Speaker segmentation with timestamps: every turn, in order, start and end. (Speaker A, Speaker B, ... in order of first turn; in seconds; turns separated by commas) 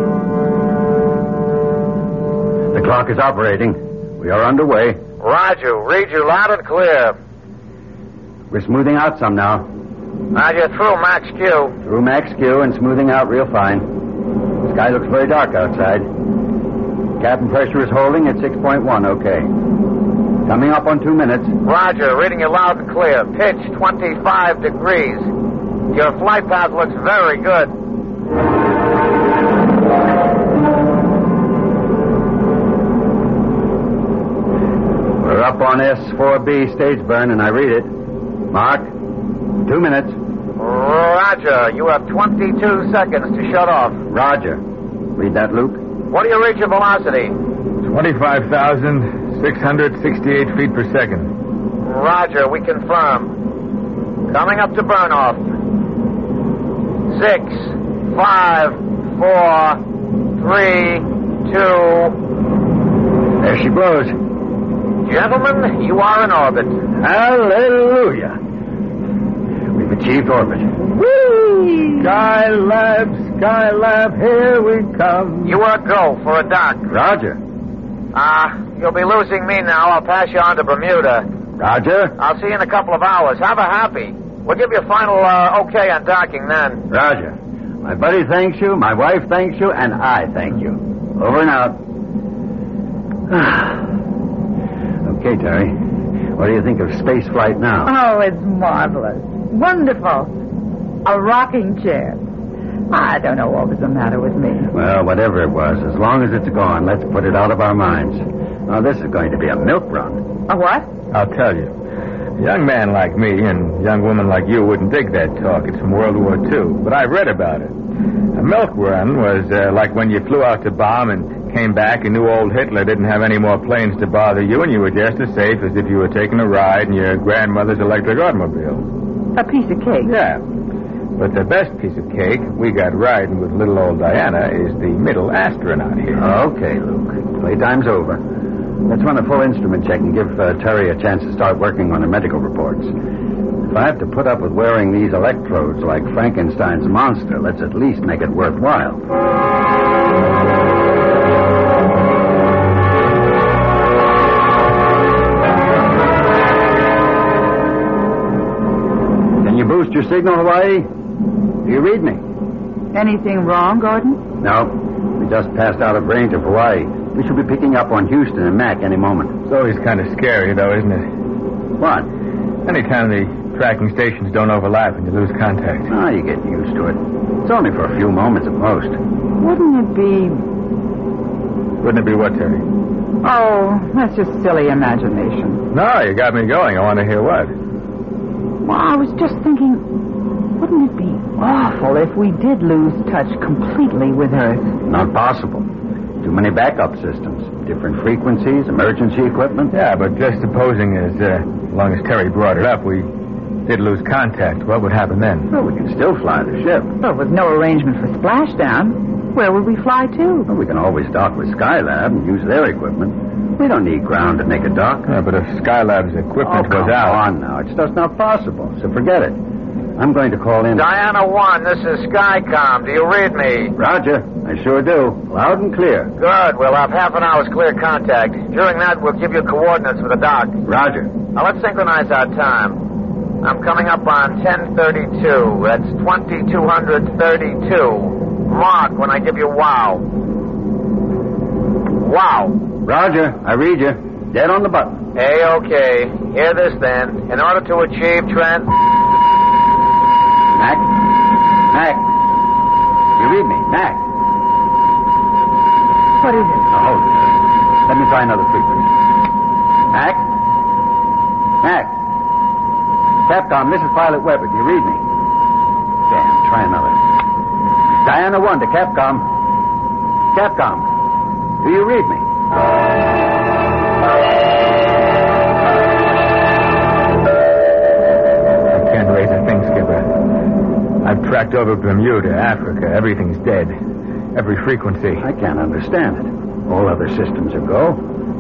Speaker A: 2.7-5.0, Speaker B: 5.2-7.2, Speaker A: 8.5-9.7, Speaker B: 10.3-11.8, Speaker A: 11.8-13.9, Speaker A: 14.6-16.1, Speaker A: 17.2-19.5, Speaker A: 20.5-21.6, Speaker B: 21.6-25.3, Speaker B: 25.9-27.7, Speaker A: 35.2-37.9, Speaker A: 38.5-38.9, Speaker A: 39.6-40.2, Speaker B: 40.6-44.0, Speaker A: 44.1-44.6, Speaker A: 45.1-45.8, Speaker B: 46.1-47.4, Speaker C: 47.8-51.3, Speaker B: 51.9-53.3, Speaker B: 54.3-55.5, Speaker B: 57.1-59.8, Speaker B: 60.4-62.2, Speaker A: 63.4-64.2, Speaker B: 65.1-66.8, Speaker A: 67.0-68.4, Speaker A: 69.7-70.9, Speaker C: 72.0-75.6, Speaker B: 75.5-76.9, Speaker A: 76.9-77.4, Speaker B: 78.1-81.3, Speaker A: 81.6-82.2, Speaker B: 82.2-86.8, Speaker A: 86.9-91.8, Speaker A: 93.3-93.8, Speaker A: 95.0-95.8, Speaker A: 96.4-97.9, Speaker D: 97.8-100.3, Speaker D: 101.0-102.2, Speaker D: 102.9-104.7, Speaker A: 104.7-110.2, Speaker D: 110.5-110.9, Speaker C: 111.1-111.7, Speaker C: 112.4-117.7, Speaker C: 118.3-128.8, Speaker D: 129.3-130.1, Speaker C: 130.0-130.4, Speaker C: 131.2-136.3, Speaker A: 136.2-138.2, Speaker A: 138.9-142.9, Speaker A: 143.6-149.0, Speaker A: 159.4-160.9, Speaker A: 161.6-162.2, Speaker D: 162.9-164.2, Speaker A: 164.4-169.4, Speaker C: 169.5-171.1, Speaker A: 171.8-172.1, Speaker C: 172.7-175.9, Speaker A: 175.9-179.0, Speaker D: 179.4-180.4, Speaker C: 181.8-182.6, Speaker D: 183.2-185.6, Speaker C: 185.7-187.5, Speaker D: 188.6-189.9, Speaker D: 190.6-194.8, Speaker A: 194.8-195.7, Speaker A: 196.2-199.7, Speaker C: 199.7-203.1, Speaker C: 203.7-205.5, Speaker A: 205.5-206.9, Speaker D: 207.0-210.5, Speaker A: 210.5-215.1, Speaker C: 215.1-217.2, Speaker A: 216.4-219.4, Speaker A: 220.0-220.9, Speaker B: 220.7-223.7, Speaker A: 223.8-226.1, Speaker B: 226.2-230.6, Speaker A: 230.7-231.2, Speaker B: 231.3-232.8, Speaker B: 233.4-240.1, Speaker B: 242.0-242.6, Speaker A: 242.8-245.0, Speaker B: 245.2-248.7, Speaker A: 250.5-251.0, Speaker A: 251.7-252.1, Speaker A: 253.2-254.0, Speaker D: 256.2-256.7, Speaker A: 256.7-258.9, Speaker A: 259.9-260.3, Speaker A: 261.6-261.9, Speaker A: 263.3-265.1, Speaker A: 266.1-267.0, Speaker A: 268.0-269.3, Speaker A: 270.3-270.9, Speaker A: 271.6-272.2, Speaker C: 278.7-280.1, Speaker C: 281.0-283.8, Speaker C: 284.3-285.2, Speaker A: 285.2-288.0